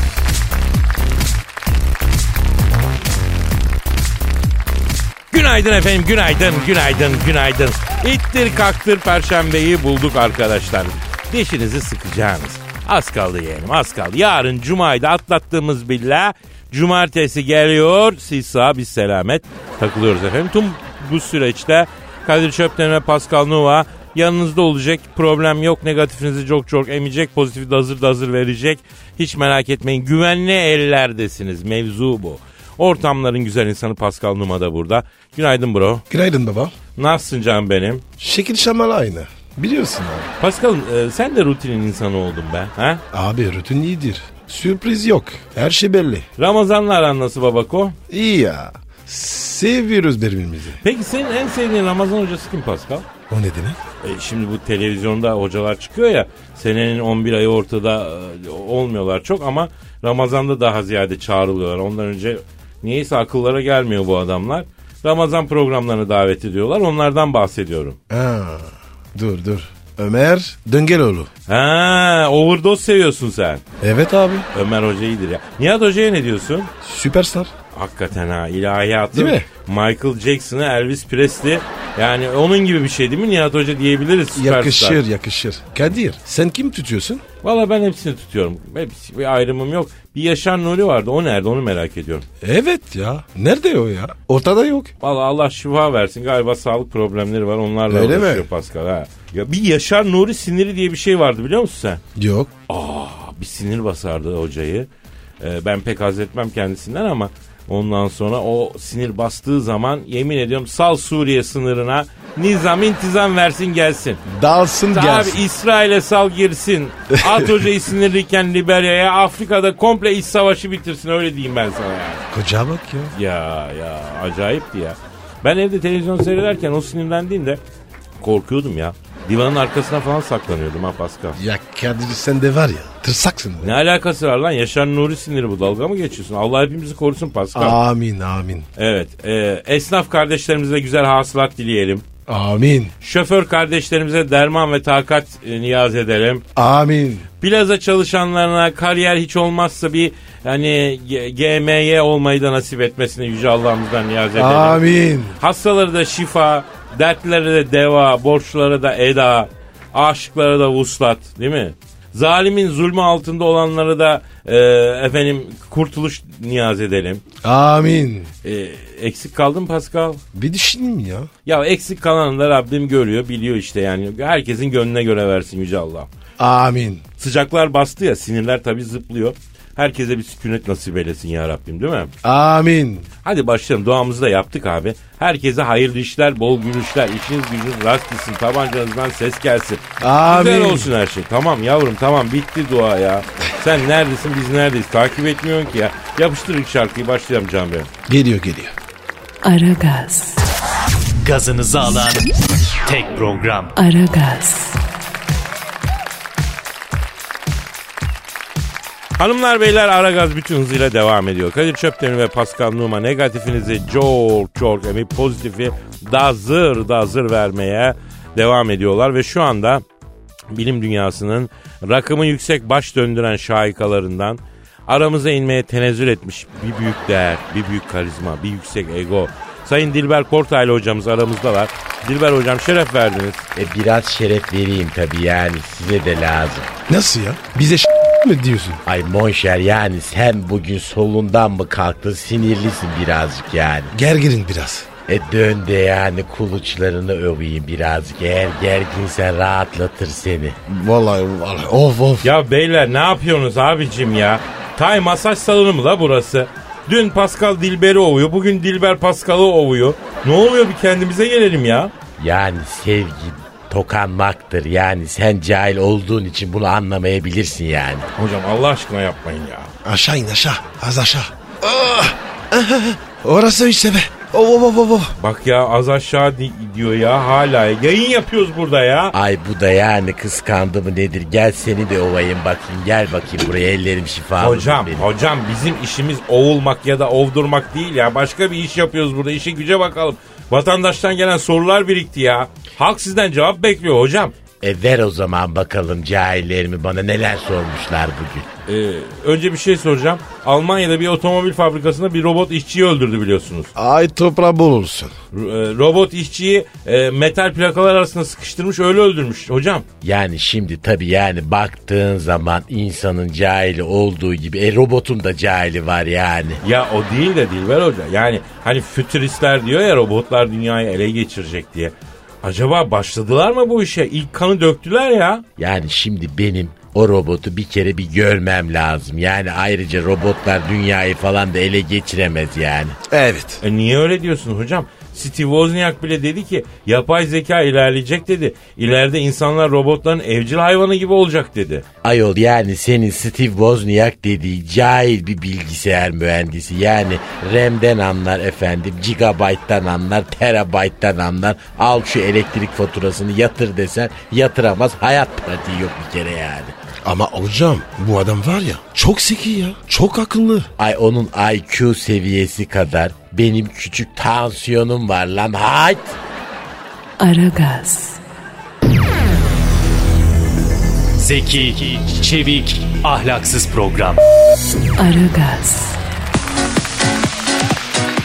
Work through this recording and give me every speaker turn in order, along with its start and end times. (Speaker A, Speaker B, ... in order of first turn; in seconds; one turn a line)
Speaker A: 5.3-36.0
Speaker B: 36.1-36.7
Speaker A: 37.0-38.0
Speaker B: 38.2-40.3
Speaker A: 40.4-43.0
Speaker B: 43.1-46.2
Speaker A: 46.4-48.0
Speaker B: 48.1-50.8
Speaker A: 50.8-53.0
Speaker B: 53.3-53.8
Speaker A: 54.0-68.0
Speaker B: 68.1-71.3
Speaker A: 71.5-73.6
Speaker B: 73.8-74.5
Speaker A: 74.5-76.7
Speaker B: 76.8-77.5
Speaker A: 77.7-85.0
Speaker B: 79.1-79.5
Speaker B: 84.3-87.2
Speaker A: 87.4-92.2
Speaker B: 92.4-94.9
Speaker A: 95.0-102.0
Speaker B: 97.9-98.5
Speaker B: 102.2-102.5
Speaker A: 102.7-104.9
Speaker A: 105.4-114.2
Speaker B: 114.2-115.4
Speaker A: 114.9-122.2
Speaker B: 117.2-117.5
Speaker B: 122.3-123.1
Speaker A: 123.1-127.6
Speaker A: 128.2-131.4
Speaker B: 131.3-133.8
Speaker A: 133.6-137.8
Speaker B: 137.5-138.7
Speaker A: 138.8-142.0
Speaker B: 142.3-142.9
Speaker A: 143.0-146.4
Speaker B: 146.6-147.2
Speaker A: 147.4-154.8
Speaker B: 154.3-155.4
Speaker A: 155.4-167.2
Speaker B: 167.4-168.3
Speaker A: 168.4-170.2
Speaker B: 170.3-171.3
Speaker A: 171.5-176.1
Speaker B: 176.4-177.0
Speaker A: 177.2-182.1
Speaker B: 182.2-183.1
Speaker A: 183.2-197.9
Speaker B: 190.0-190.9
Speaker B: 198.1-198.8
Speaker C: 199.4-200.4
Speaker D: 201.2-202.2
Speaker D: 202.8-203.7
Speaker C: 203.8-204.8
Speaker A: 209.2-219.8
Speaker A: 220.5-233.5
Speaker E: 233.6-236.7
Speaker B: 236.9-238.8
Speaker E: 238.8-243.9
Speaker B: 243.9-244.9
Speaker E: 245.1-250.6
Speaker B: 250.7-252.3
Speaker A: 252.2-261.9
Speaker E: 262.2-268.1
Speaker A: 268.1-269.7
Speaker B: 269.8-275.1
Speaker A: 275.2-279.1
Speaker E: 279.1-285.1
Speaker A: 284.4-294.3
Speaker E: 294.6-298.5
Speaker A: 298.7-303.7
Speaker B: 303.8-305.1
Speaker A: 305.3-309.9
Speaker E: 310.0-316.6
Speaker A: 316.6-325.4
Speaker E: 325.6-333.0
Speaker B: 333.1-333.6
Speaker A: 333.6-341.9
Speaker E: 342.0-356.7
Speaker B: 357.0-360.7
Speaker E: 360.8-366.2
Speaker C: 367.2-368.2
Speaker D: 371.2-374.2
Speaker C: 375.0-376.0